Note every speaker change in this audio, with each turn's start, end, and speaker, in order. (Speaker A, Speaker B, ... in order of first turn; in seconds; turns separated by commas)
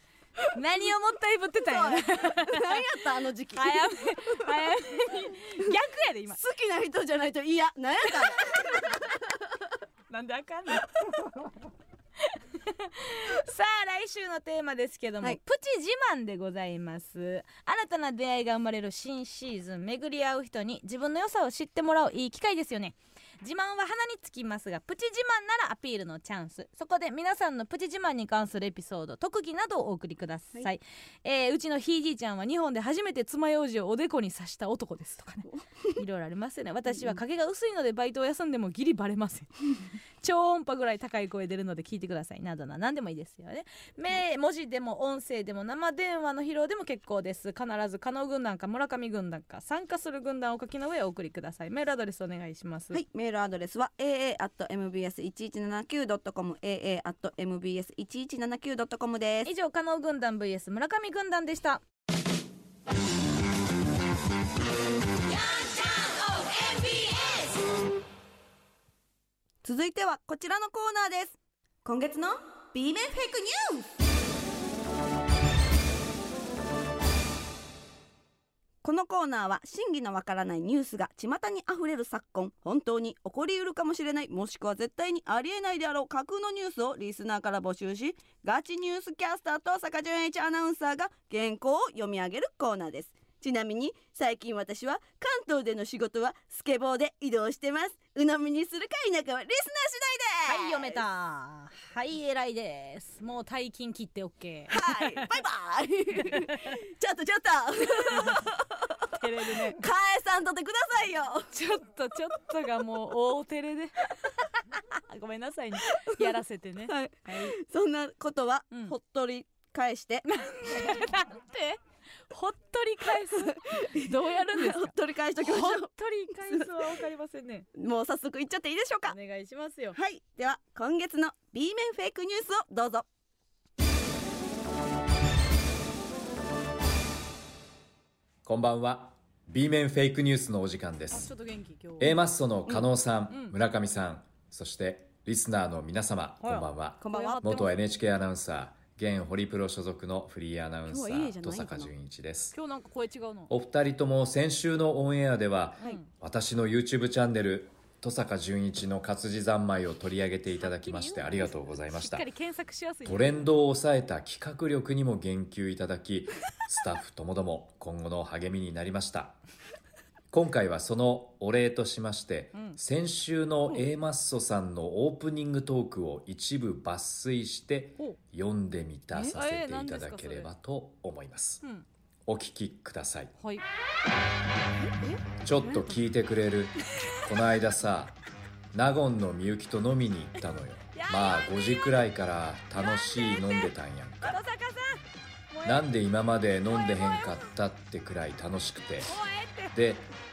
Speaker A: 0.5-6.4, Speaker B: 1.6-4.5, Speaker B: 6.3-9.6, Speaker A: 8.0-9.0, Speaker A: 10.1-11.4, Speaker A: 12.2-53.0, Speaker B: 35.5-35.9, Speaker B: 52.9-59.5, Speaker A: 59.5-61.8, Speaker B: 69.6-73.9, Speaker B: 78.8-101.0, Speaker A: 100.5-105.4, Speaker B: 104.7-111.5, Speaker A: 106.3-106.8, Speaker A: 108.0-108.4, Speaker A: 109.1-109.8, Speaker A: 111.5-117.5, Speaker B: 115.9-116.2, Speaker B: 116.9-120.3, Speaker A: 120.3-127.7, Speaker B: 123.6-125.9, Speaker B: 126.5-126.7, Speaker B: 127.7-129.2, Speaker A: 129.1-130.0, Speaker B: 129.9-133.1, Speaker C: 138.4-141.3, Speaker A: 141.1-142.2, Speaker C: 142.0-152.6, Speaker A: 143.3-143.6, Speaker A: 146.4-147.7, Speaker B: 147.0-147.7, Speaker B: 150.9-151.9, Speaker A: 152.5-153.5, Speaker C: 153.5-162.3, Speaker A: 155.8-156.1, Speaker A: 160.6-163.5, Speaker C: 163.1-169.4, Speaker C: 170.3-181.6, Speaker A: 179.1-180.5, Speaker C: 182.3-183.3, Speaker A: 183.4-183.7, Speaker C: 185.4-188.2, Speaker A: 186.9-187.3, Speaker C: 188.7-194.4, Speaker A: 190.9-192.0, Speaker A: 192.8-193.7, Speaker A: 194.2-195.9, Speaker C: 195.6-199.2, Speaker A: 196.7-197.5, Speaker A: 199.1-199.8, Speaker C: 199.7-200.1